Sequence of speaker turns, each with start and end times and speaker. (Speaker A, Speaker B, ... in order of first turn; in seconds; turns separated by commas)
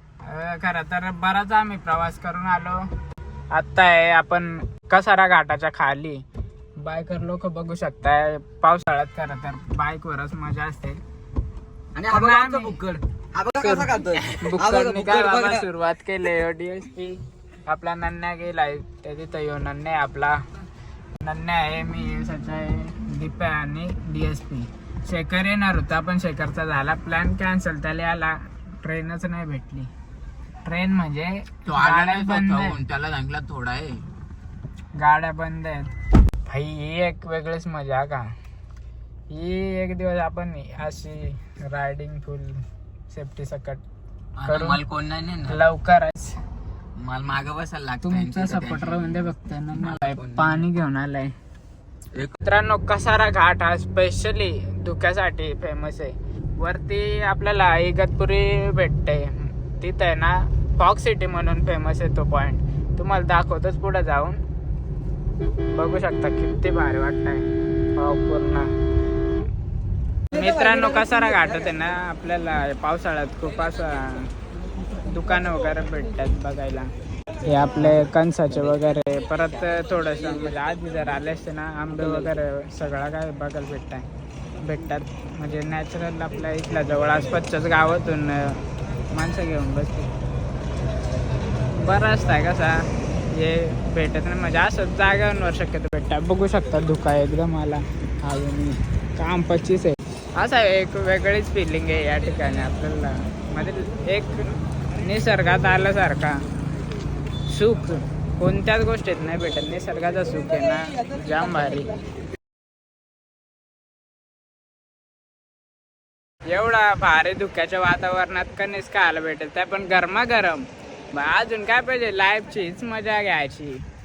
Speaker A: 0.2-2.9, Speaker A: 3.5-6.2, Speaker A: 6.8-11.0, Speaker B: 11.9-15.5, Speaker A: 12.0-12.9, Speaker A: 13.5-20.4, Speaker A: 21.2-29.9, Speaker A: 30.6-32.8, Speaker C: 31.7-34.0, Speaker A: 35.0-35.9, Speaker A: 36.4-38.3, Speaker A: 39.3-43.8, Speaker C: 44.4-45.6, Speaker A: 44.4-44.8, Speaker A: 45.4-46.4, Speaker C: 47.0-49.0, Speaker A: 48.0-51.3, Speaker C: 49.8-50.6, Speaker A: 52.4-64.4, Speaker A: 65.7-68.7, Speaker A: 70.3-74.3, Speaker A: 74.9-76.9, Speaker A: 77.5-90.1, Speaker A: 91.7-106.4, Speaker A: 107.5-111.9, Speaker A: 116.5-123.8